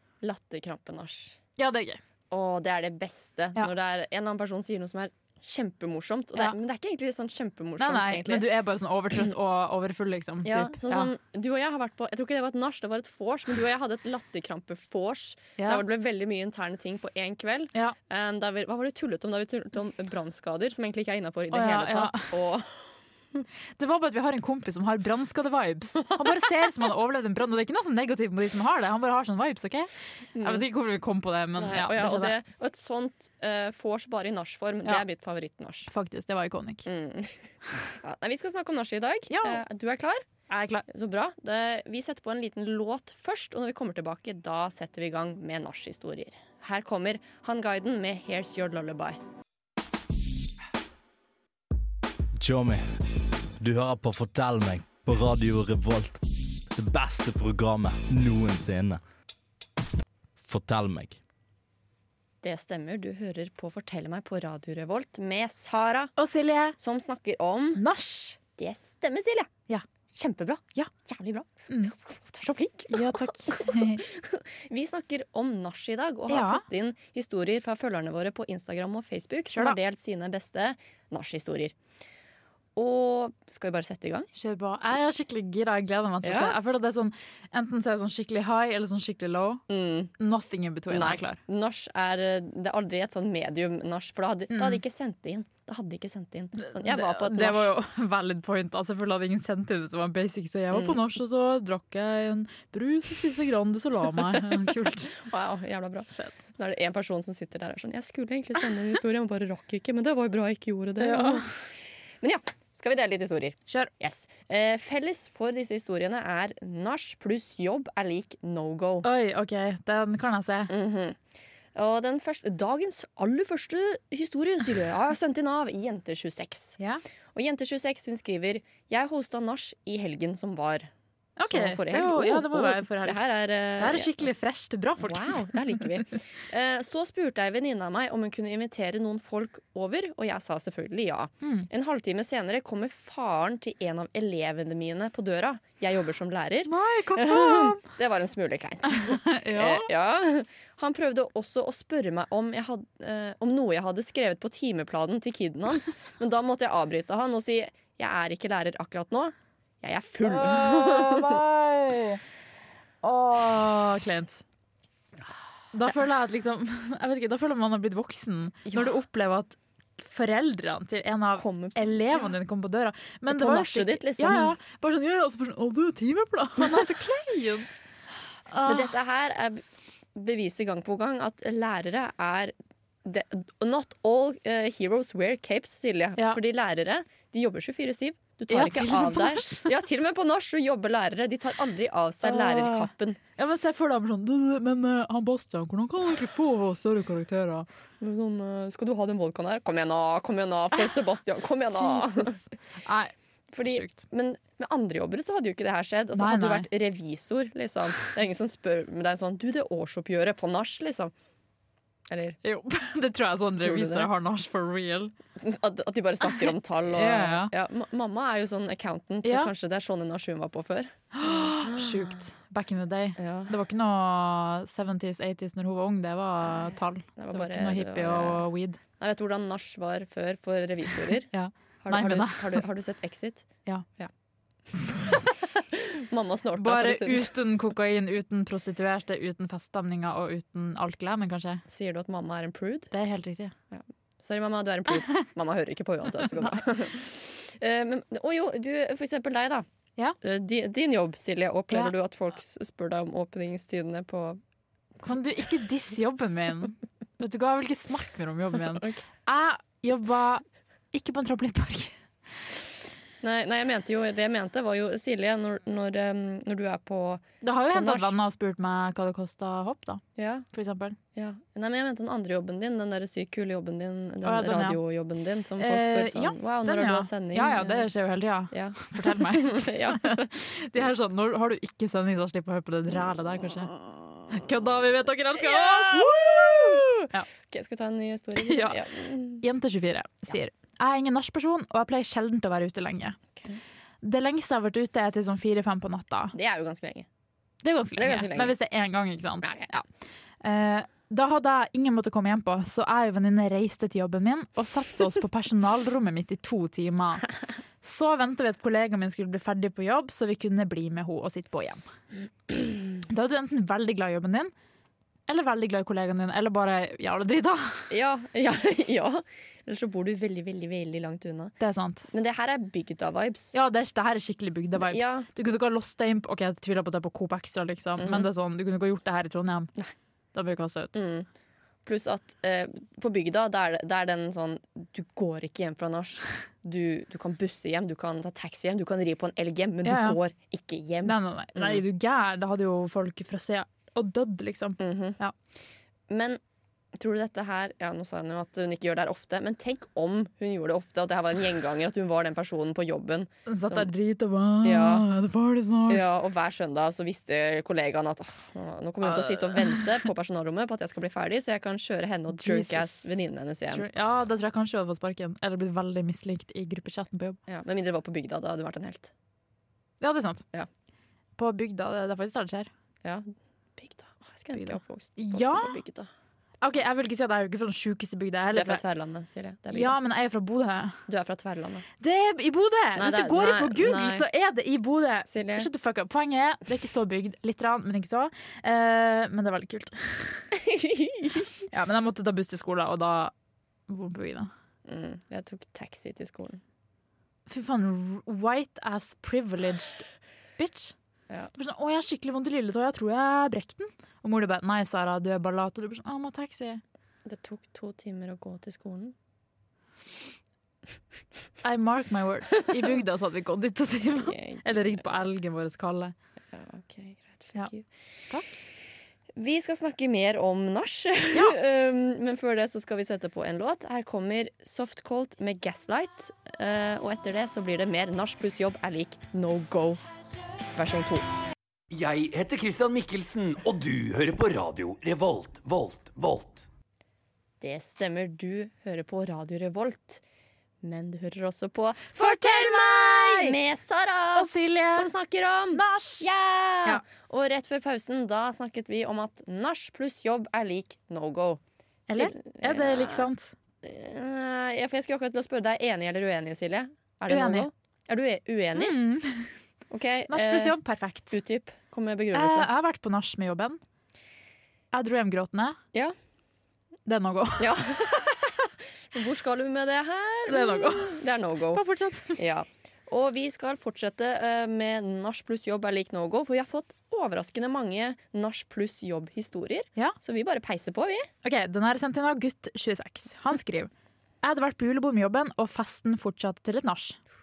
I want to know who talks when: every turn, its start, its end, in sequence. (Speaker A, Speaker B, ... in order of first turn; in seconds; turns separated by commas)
Speaker A: 0.2-1.4, Speaker B: 1.6-2.0, Speaker A: 2.3-8.5, Speaker B: 7.8-11.1, Speaker A: 10.4-23.4, Speaker B: 15.6-15.8, Speaker B: 21.5-22.3, Speaker B: 23.8-32.4, Speaker A: 26.0-26.6, Speaker A: 30.4-30.7, Speaker A: 31.6-35.9, Speaker B: 35.9-36.9, Speaker A: 36.9-40.3, Speaker B: 39.3-39.6, Speaker B: 40.5-40.9, Speaker A: 40.9-49.2, Speaker C: 52.4-53.0, Speaker C: 53.6-56.2, Speaker C: 56.7-59.0, Speaker C: 60.4-61.2, Speaker A: 62.4-66.1, Speaker B: 66.2-66.8, Speaker A: 66.8-67.8, Speaker B: 67.8-68.4, Speaker A: 68.6-69.5, Speaker A: 70.1-81.8, Speaker B: 72.9-74.0, Speaker B: 76.3-76.6, Speaker B: 79.5-79.8, Speaker A: 82.8-84.3, Speaker B: 84.3-89.6, Speaker A: 86.2-86.6, Speaker A: 89.7-90.1, Speaker B: 90.2-91.4, Speaker A: 90.9-97.7, Speaker B: 94.5-94.8, Speaker B: 96.6-105.2, Speaker A: 100.7-101.0, Speaker A: 104.2-111.6, Speaker B: 111.0-111.5, Speaker A: 112.2-119.1, Speaker B: 119.0-120.7, Speaker A: 120.7-121.2, Speaker A: 121.8-126.8, Speaker A: 127.3-130.9, Speaker B: 131.4-135.6, Speaker A: 131.5-134.3, Speaker A: 135.0-161.4, Speaker B: 141.4-141.7, Speaker B: 146.7-147.8, Speaker B: 148.8-149.9, Speaker B: 160.2-162.2, Speaker B: 163.0-164.4, Speaker B: 165.7-177.8, Speaker A: 168.7-169.0, Speaker A: 171.4-172.3, Speaker A: 173.3-174.6, Speaker A: 176.6-176.8, Speaker B: 178.5-178.9, Speaker A: 178.7-179.6, Speaker A: 180.2-193.2, Speaker B: 188.5-189.7, Speaker B: 192.2-197.7, Speaker A: 198.0-202.4, Speaker B: 201.7-204.0, Speaker A: 203.5-211.1, Speaker B: 206.2-206.7, Speaker A: 212.1-212.4, Speaker B: 212.4-215.1, Speaker A: 213.6-214.1, Speaker A: 215.4-221.0, Speaker B: 216.3-217.5, Speaker B: 219.2-219.5, Speaker B: 221.1-228.8, Speaker A: 221.5-222.2, Speaker A: 223.2-223.6, Speaker A: 226.4-228.5, Speaker A: 229.0-231.3, Speaker B: 231.3-232.6, Speaker A: 231.8-234.1, Speaker A: 235.6-237.4, Speaker B: 236.6-241.6, Speaker A: 241.7-242.9, Speaker B: 242.9-243.5, Speaker A: 243.7-249.7, Speaker A: 250.2-254.4, Speaker B: 255.0-262.0, Speaker A: 258.6-259.0, Speaker A: 263.2-268.1, Speaker B: 267.4-271.0, Speaker A: 270.2-270.5, Speaker A: 271.1-277.9, Speaker B: 274.2-274.8, Speaker B: 275.6-283.7, Speaker A: 278.5-280.3, Speaker A: 283.7-284.2, Speaker B: 284.3-287.3, Speaker A: 285.4-289.4, Speaker B: 288.4-288.8, Speaker B: 289.4-293.2, Speaker B: 294.0-296.4, Speaker A: 296.3-297.1, Speaker B: 297.6-299.9, Speaker A: 298.0-298.5, Speaker A: 299.4-299.7, Speaker B: 300.4-307.3, Speaker B: 307.8-311.8, Speaker B: 313.0-314.5, Speaker B: 315.3-317.9, Speaker A: 317.9-321.6, Speaker B: 321.6-322.1, Speaker A: 322.1-323.6, Speaker B: 323.5-329.7, Speaker A: 324.8-325.3, Speaker A: 328.0-328.3, Speaker B: 330.3-331.0, Speaker A: 330.9-331.3, Speaker A: 331.8-341.8, Speaker B: 339.9-340.2, Speaker B: 341.0-345.3, Speaker A: 344.8-345.2, Speaker A: 346.1-346.4, Speaker A: 346.9-353.9, Speaker B: 353.5-356.0, Speaker A: 354.6-355.1, Speaker A: 355.9-363.9, Speaker B: 359.0-360.1, Speaker B: 362.3-363.1, Speaker B: 363.7-367.4, Speaker A: 367.5-369.1, Speaker B: 370.0-370.4, Speaker B: 371.4-372.7, Speaker A: 373.0-376.1, Speaker B: 374.5-375.8, Speaker B: 376.6-378.8, Speaker A: 378.5-380.0, Speaker B: 379.7-381.0, Speaker A: 381.1-381.9, Speaker B: 382.0-390.5, Speaker A: 383.0-384.3, Speaker A: 385.3-385.7, Speaker A: 390.5-391.5, Speaker B: 391.7-393.3, Speaker B: 393.9-394.5, Speaker A: 394.9-396.6, Speaker B: 397.5-400.1, Speaker B: 400.6-400.9, Speaker B: 401.6-406.8, Speaker A: 407.2-409.1, Speaker B: 411.6-416.1, Speaker A: 414.1-415.0, Speaker A: 416.5-417.9, Speaker A: 419.4-430.0, Speaker B: 421.3-421.6, Speaker A: 430.7-431.3, Speaker D: 431.9-436.7, Speaker A: 437.6-440.2, Speaker A: 440.8-453.3, Speaker B: 442.1-443.6, Speaker B: 444.3-445.1, Speaker B: 445.7-446.3, Speaker B: 452.1-453.5, Speaker A: 453.8-459.0, Speaker B: 457.3-457.7, Speaker B: 458.8-459.5, Speaker A: 459.9-460.8, Speaker B: 460.3-461.4, Speaker A: 461.3-462.7, Speaker B: 462.3-463.8, Speaker B: 464.9-465.8, Speaker B: 467.1-467.8, Speaker A: 467.6-471.8, Speaker B: 470.5-471.2, Speaker B: 471.7-472.4, Speaker A: 472.4-481.3, Speaker B: 481.4-483.9, Speaker B: 484.4-487.2